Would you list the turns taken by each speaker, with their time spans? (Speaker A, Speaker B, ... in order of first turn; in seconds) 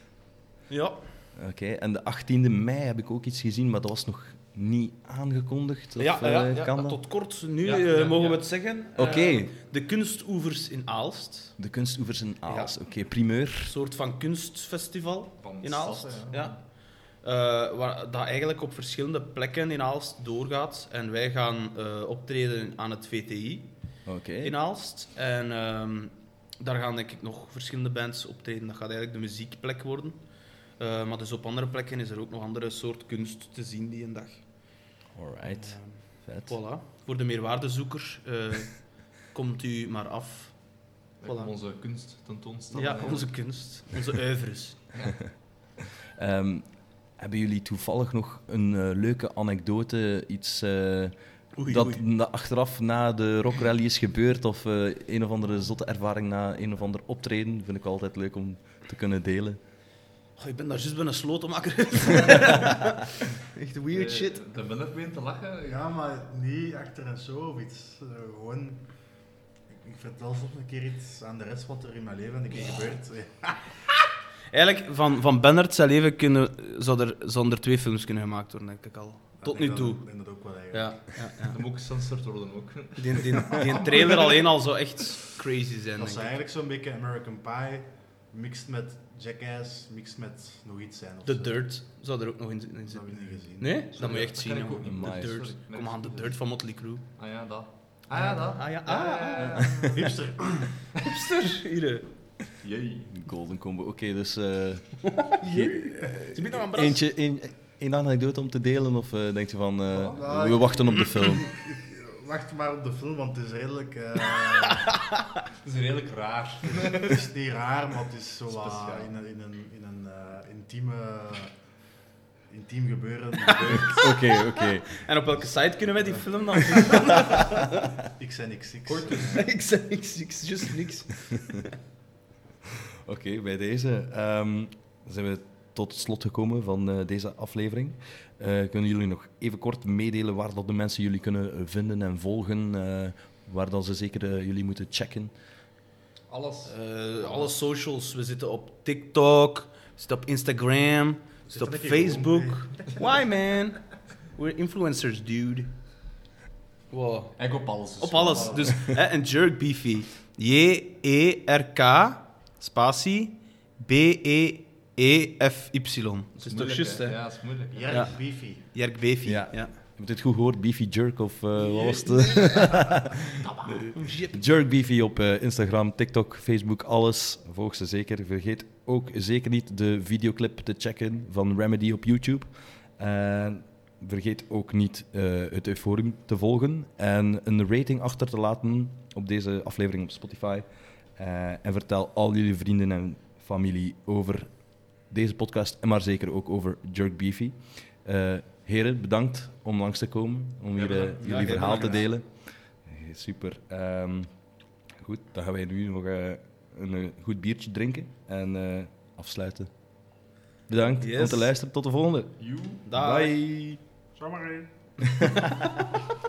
Speaker A: 0.7-1.1, 6.0-11.6, 12.5-23.8, 24.4-34.8, 35.4-41.5, 42.7-45.1, 51.6-52.0, 60.4-64.4, 74.5-81.6, 83.0-86.3, 91.2-97.1, 98.4-100.1, 101.0-102.4, 105.4-107.0, 123.8-127.7, 128.9-131.7, 146.7-155.8, 156.9-169.8, 171.7-174.4, 201.2-202.1, 211.0-211.5, 212.8-213.4
Speaker B: 1.4-7.0, 8.9-9.5, 11.6-13.7, 24.1-24.6, 35.1-36.6, 46.2-59.6, 94.8-95.5, 99.4-99.9, 103.1-111.5, 124.0-125.1, 133.1-145.4, 169.3-173.1, 173.7-213.9
Speaker C: 7.6-8.4, 15.4-16.6, 41.2-43.5, 44.9-45.2, 63.9-65.8, 81.5-84.4, 93.9-99.9, 102.6-103.1, 115.6-117.3, 118.5-119.1, 146.3-147.6, 157.4-158.8, 166.4-168.1, 200.8-201.6, 212.4-212.8
Speaker D: 65.6-73.8, 79.4-81.2, 86.0-91.7, 92.9-93.8, 98.1-98.6, 99.9-100.7, 110.0-115.0, 116.9-121.8, 122.5-124.1, 128.1-129.5, 151.5-153.0, 167.7-168.7, 214.2-215.0